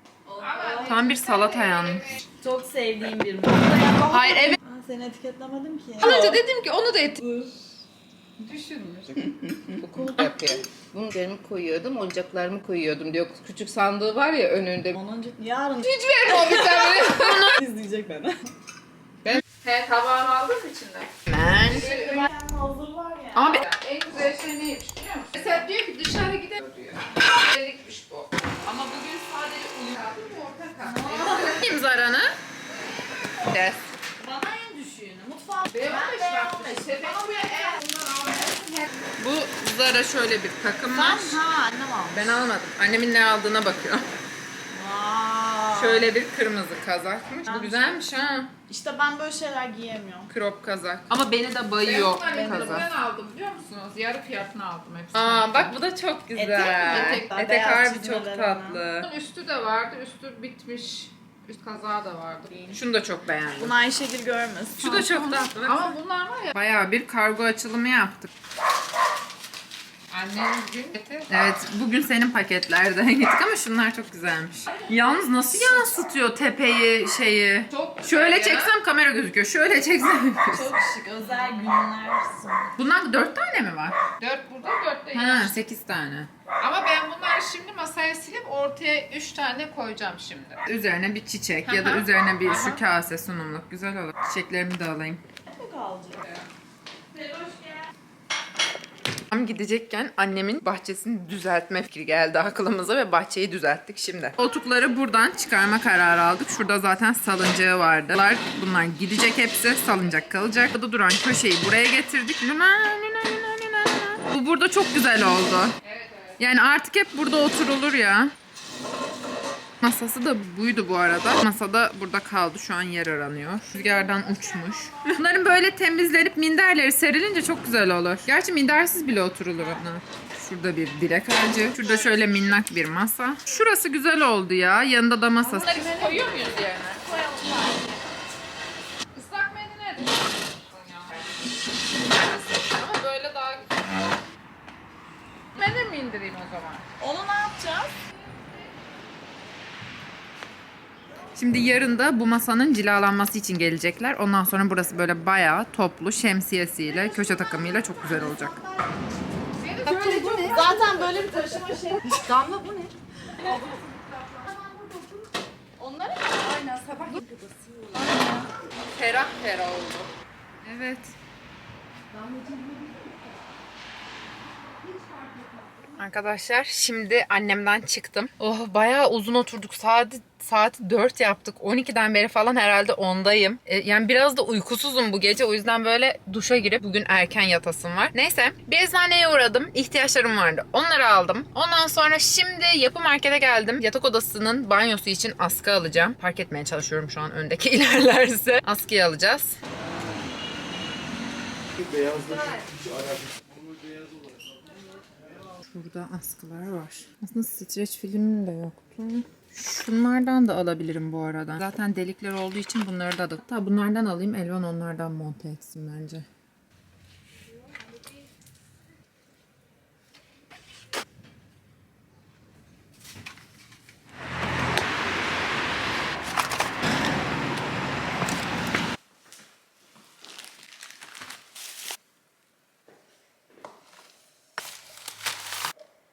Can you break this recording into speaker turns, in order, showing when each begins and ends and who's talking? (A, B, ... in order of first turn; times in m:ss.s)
0:00.3-0:00.9 A
0:00.4-0:01.7 B
0:00.8-0:02.2 C
0:02.4-0:06.4 A
0:06.0-0:07.2 C
0:06.0-0:06.4 B
0:07.2-0:07.5 A
0:08.4-0:09.1 B
0:09.8-0:14.9 C
0:14.9-0:18.4 A
0:15.8-0:17.6 B
0:19.2-0:21.1 B
0:21.3-0:21.9 C
0:21.6-0:23.6 A
0:21.7-0:22.3 B
0:23.3-0:23.6 C
0:23.6-0:31.6 B
0:30.8-0:31.6 A
0:31.2-0:32.4 C
0:33.4-0:33.9 C
0:34.2-0:37.8 A
0:35.7-0:38.9 B
0:39.2-0:41.4 C
0:40.9-0:42.4 A
0:42.1-0:44.1 C
0:44.7-0:46.1 A
0:45.7-0:48.5 C
0:47.5-0:47.9 A
0:48.7-0:50.3 A
0:50.3-0:52.8 C
0:51.2-0:55.8 B
0:52.3-0:52.8 A
0:55.1-0:59.1 C
0:56.4-0:58.8 A
0:56.8-0:57.3 B
0:59.0-1:02.5 B
1:02.7-1:03.7 C
1:03.6-1:05.0 A
1:04.8-1:05.9 C
1:04.8-1:06.5 B
1:06.5-1:08.3 C
1:10.1-1:11.2 B
1:11.3-1:20.7 C
1:14.8-1:15.9 B
1:17.7-1:18.7 B
1:20.5-1:22.7 A
1:22.8-1:24.1 C
1:24.1-1:25.6 B
1:25.1-1:26.3 C
1:26.6-1:30.6 B
1:30.6-1:35.2 C
1:31.7-1:32.8 B
1:35.5-1:36.2 A
1:37.1-1:37.9 A
1:39.3-1:55.8 C
1:55.8-1:56.4 B
1:56.4-1:58.3 C
1:59.8-2:17.0 C
2:04.1-2:05.1 A
2:15.4-2:17.9 A
2:15.6-2:16.9 B
2:19.1-2:20.2 B
2:20.7-2:21.1 B
2:22.0-2:23.0 C
2:22.8-2:23.6 B
2:25.6-2:26.8 B
2:27.0-2:28.0 A
2:31.4-2:38.6 C
2:37.0-2:38.7 A
2:39.6-2:40.8 B
2:39.8-2:45.3 A
2:45.8-2:48.5 A
2:49.0-2:50.1 C
2:49.0-2:49.3 B
2:50.6-2:51.1 C
2:52.1-2:53.2 A
2:54.8-2:55.9 A
2:56.0-3:19.6 C
3:25.6-3:36.2 C